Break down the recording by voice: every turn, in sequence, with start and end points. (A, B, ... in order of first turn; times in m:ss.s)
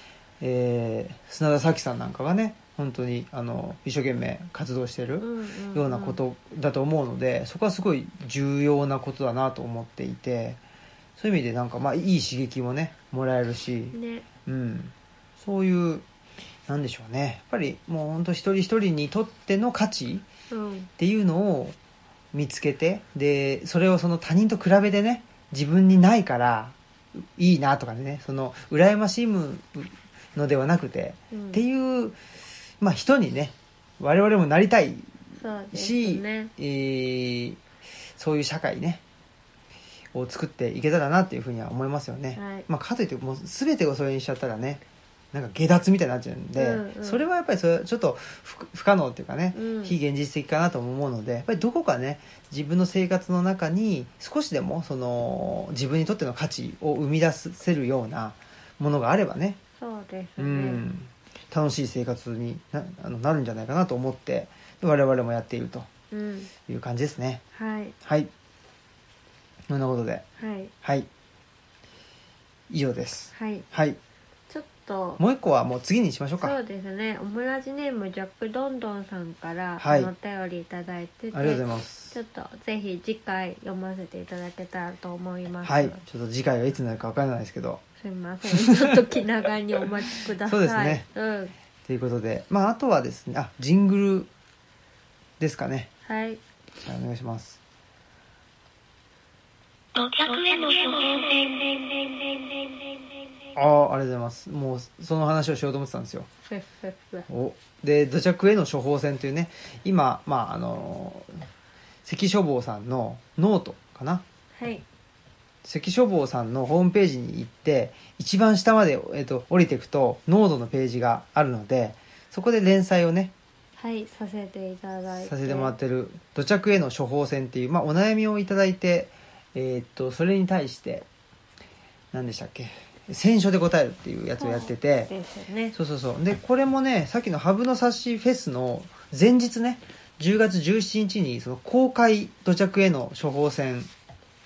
0:00.4-0:10.6 A
0:05.2-0:06.2 B
0:11.2-0:16.0 A
0:13.9-0:14.2 B
0:16.7-0:20.2 A
0:20.5-0:20.9 B
0:21.0-0:21.8 A
0:22.3-0:32.2 A
0:31.3-0:31.6 B
0:32.8-0:35.1 A
0:35.4-0:36.5 B
0:35.7-0:37.6 A
0:38.2-0:39.0 A
0:40.1-0:44.8 A
0:42.3-0:42.7 B
0:45.3-0:59.6 A
0:46.5-0:47.2 B
0:49.5-0:50.0 B
0:59.8-1:00.8 B
1:00.4-1:05.9 A
1:06.1-1:06.5 B
1:06.7-1:07.4 A
1:07.5-1:07.9 B
1:08.0-1:08.3 A
1:09.7-1:10.2 A
1:10.4-1:10.7 B
1:10.8-1:11.1 A
1:12.7-1:14.0 A
1:13.3-1:13.6 B
1:14.5-1:15.2 B
1:15.2-1:16.6 A
1:16.4-1:26.0 B
1:19.8-1:20.1 A
1:21.3-1:22.2 A
1:25.6-1:27.8 A
1:28.0-1:31.5 B
1:28.5-1:29.0 A
1:30.4-1:31.0 A
1:31.8-1:34.3 A
1:35.4-1:35.9 A
1:36.0-1:36.4 B
1:36.8-1:37.6 A
1:40.0-1:42.2 C
1:40.2-1:41.8 B
1:43.5-1:46.3 A
1:46.5-1:47.3 B
1:47.3-1:51.4 A
1:52.0-1:54.2 A
1:54.6-1:54.8 B
1:55.6-2:03.3 A
2:03.8-2:05.7 B
2:05.2-2:11.0 A
2:12.1-2:15.1 A
2:14.4-2:15.8 B
2:15.7-2:23.9 A